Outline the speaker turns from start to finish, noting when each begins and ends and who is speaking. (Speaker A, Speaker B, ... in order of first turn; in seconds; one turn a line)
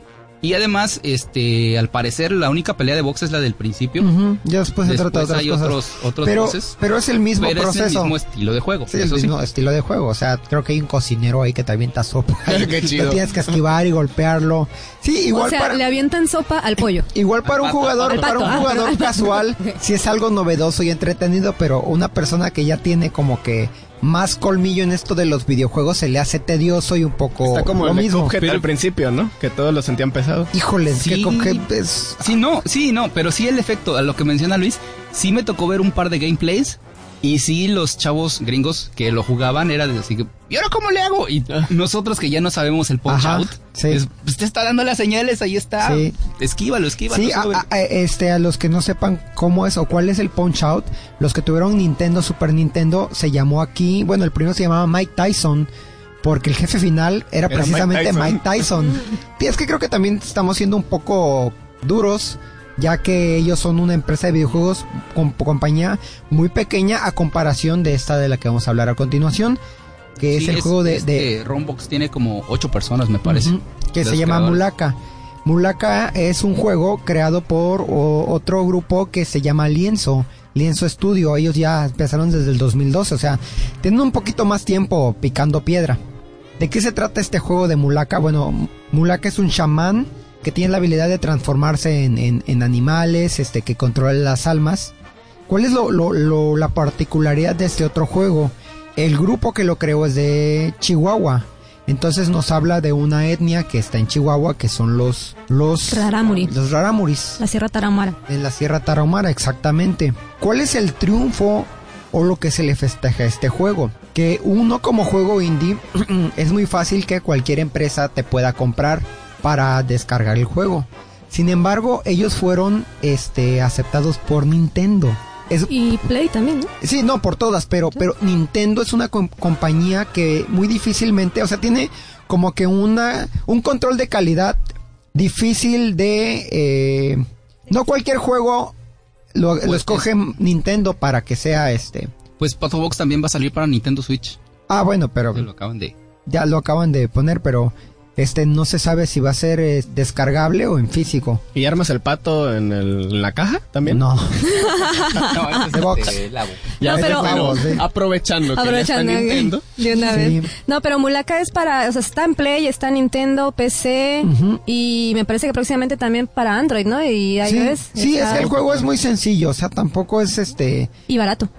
Speaker A: 0.4-4.1
Speaker B: 4.0-8.2
Speaker A: 4.8-6.7
Speaker A: 7.4-9.3
Speaker B: 8.9-15.8
Speaker C: 12.5-13.2
Speaker D: 15.3-17.1
Speaker B: 17.1-28.4
Speaker A: 17.4-18.5
Speaker D: 18.1-19.8
Speaker C: 27.4-30.5
Speaker A: 28.4-28.7
Speaker B: 30.5-32.4
Speaker A: 30.9-31.6
Speaker A: 32.2-47.6
Speaker B: 43.1-44.0
Speaker B: 45.8-46.2
Speaker B: 47.1-55.7
Speaker B: 56.2-69.6
Speaker C: 57.5-58.4
Speaker B: 70.2-71.3
Speaker A: 70.3-74.7
Speaker B: 73.2-86.0
Speaker B: 86.6-94.9
Speaker B: 95.5-107.4
Speaker D: 105.9-106.5
Speaker D: 107.4-108.2
Speaker B: 108.3-125.7
Speaker D: 125.7-126.7
Speaker B: 126.8-134.6
Speaker B: 135.1-138.8
Speaker B: 139.3-142.1
Speaker A: 139.6-140.1
Speaker A: 142.4-144.4
Speaker B: 144.7-145.5
Speaker A: 145.3-145.9
Speaker B: 146.3-151.4
Speaker C: 151.6-154.0
Speaker B: 153.9-154.6
Speaker D: 154.5-155.6
Speaker A: 155.3-156.8
Speaker B: 155.7-156.2
Speaker C: 156.8-159.7
Speaker B: 156.8-157.8
Speaker D: 156.9-157.8
Speaker D: 158.5-168.6
Speaker B: 160.1-160.5
Speaker B: 164.2-164.6
Speaker B: 167.4-170.9
Speaker D: 171.1-171.5